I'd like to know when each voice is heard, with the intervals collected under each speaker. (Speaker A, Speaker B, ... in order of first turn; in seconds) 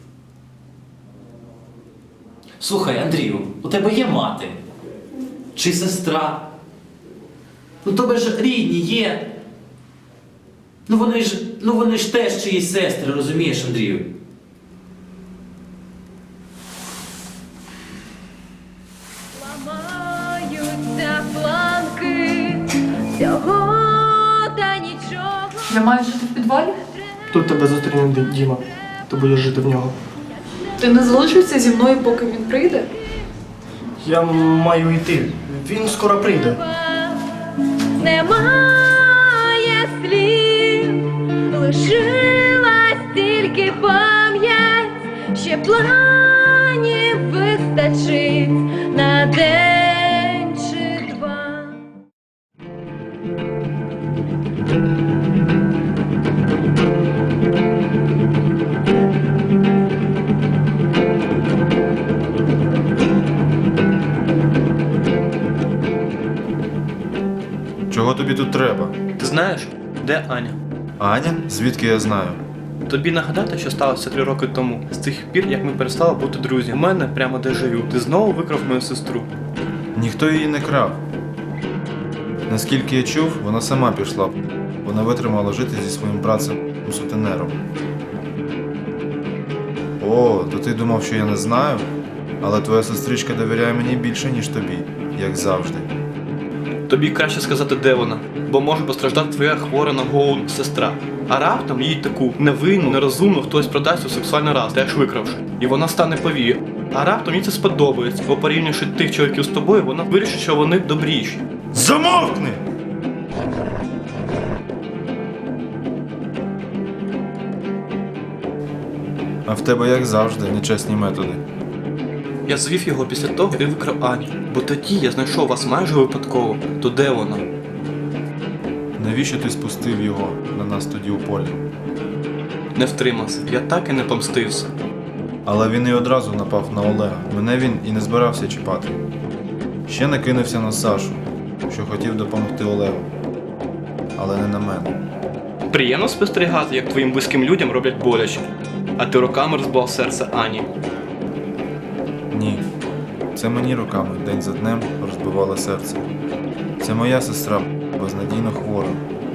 Speaker A: 2.6-4.5, 5.5-6.5, 7.8-9.3, 10.9-14.1
Speaker B: 19.3-25.7, 36.5-37.3, 38.0-51.8
Speaker C: 25.7-26.8, 30.8-32.9
Speaker D: 27.3-29.9, 34.0-36.6
Speaker E: 67.9-69.0, 71.0-72.4, 79.9-81.0, 82.5-87.5, 90.0-91.8, 92.4-95.9, 111.7-112.6, 119.4-121.4, 129.0-131.6, 135.4-139.0, 139.9-143.1, 144.2-145.0, 152.3-152.6, 153.3-156.1, 156.8-159.0
Speaker F: 69.2-70.6, 72.9-79.3, 96.9-111.4, 122.5-127.5, 132.7-134.7, 145.7-148.4, 149.0-150.7